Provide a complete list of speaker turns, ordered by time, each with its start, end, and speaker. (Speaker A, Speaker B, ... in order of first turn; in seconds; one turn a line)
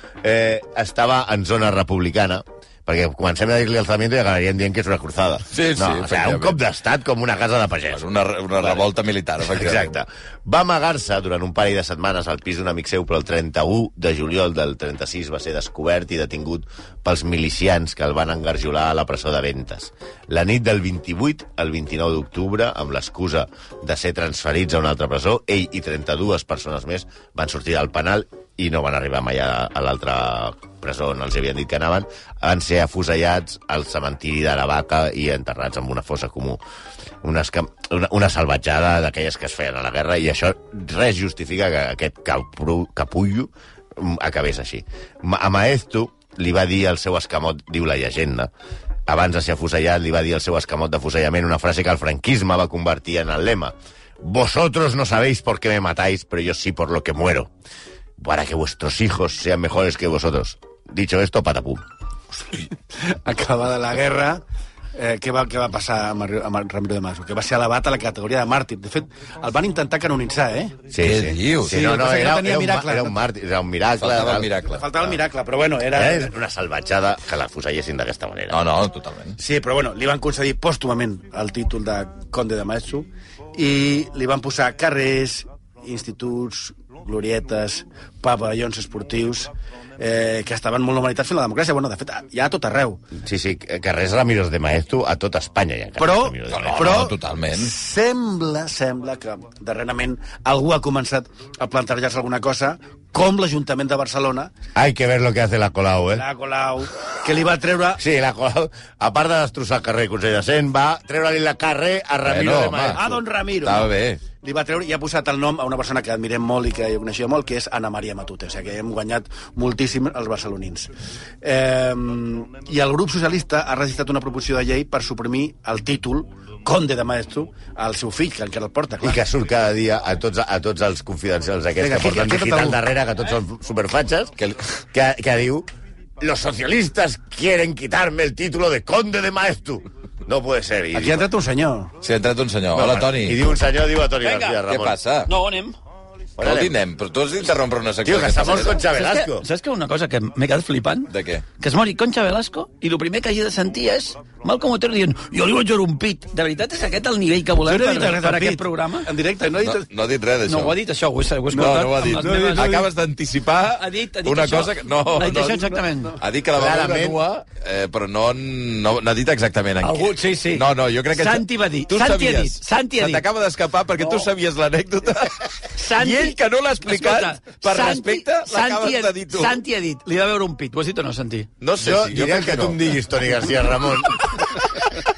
Speaker A: 0.2-8.0
Speaker B: 5.5-6.6
Speaker B: 7.9-9.9
Speaker A: 8.6-8.8
Speaker A: 9.5-36.6
Speaker A: 37.2-48.5
Speaker A: 49.1-57.5
Speaker A: 58.2-61.8
Speaker C: 62.9-64.4
Speaker C: 64.9-70.8
Speaker A: 70.9-74.5
Speaker B: 71.0-71.8
Speaker C: 71.7-73.1
Speaker B: 74.0-74.8
Speaker C: 74.7-76.3
Speaker A: 75.9-78.6
Speaker B: 78.5-79.4
Speaker C: 79.4-93.1
Speaker A: 93.2-97.0
Speaker C: 96.0-104.5
Speaker B: 96.5-97.7
Speaker A: 104.7-106.2
Speaker C: 106.2-108.0
Speaker A: 108.0-113.2
Speaker B: 112.2-113.0
Speaker C: 112.9-129.2
Speaker B: 113.6-114.2
Speaker A: 129.0-135.7
Speaker C: 131.8-132.8
Speaker B: 134.4-134.6
Speaker A: 136.2-141.3
Speaker C: 140.9-141.9
Speaker B: 142.0-143.5
Speaker A: 142.7-145.0
Speaker D: 144.2-144.6
Speaker B: 144.6-145.3
Speaker D: 145.3-145.8
Speaker A: 146.4-146.8
Speaker B: 146.4-148.8
Speaker A: 148.0-149.4
Speaker D: 148.9-159.1
Speaker B: 151.1-151.5
Speaker C: 157.6-159.9
Speaker B: 159.6-160.8
Speaker D: 160.4-162.8
Speaker C: 161.5-162.9
Speaker B: 161.5-179.6
Speaker D: 163.8-166.2
Speaker A: 166.5-167.2
Speaker D: 169.8-173.2
Speaker D: 174.0-174.3
Speaker D: 175.7-181.5
Speaker B: 181.6-183.0
Speaker A: 181.8-184.4
Speaker B: 184.2-184.7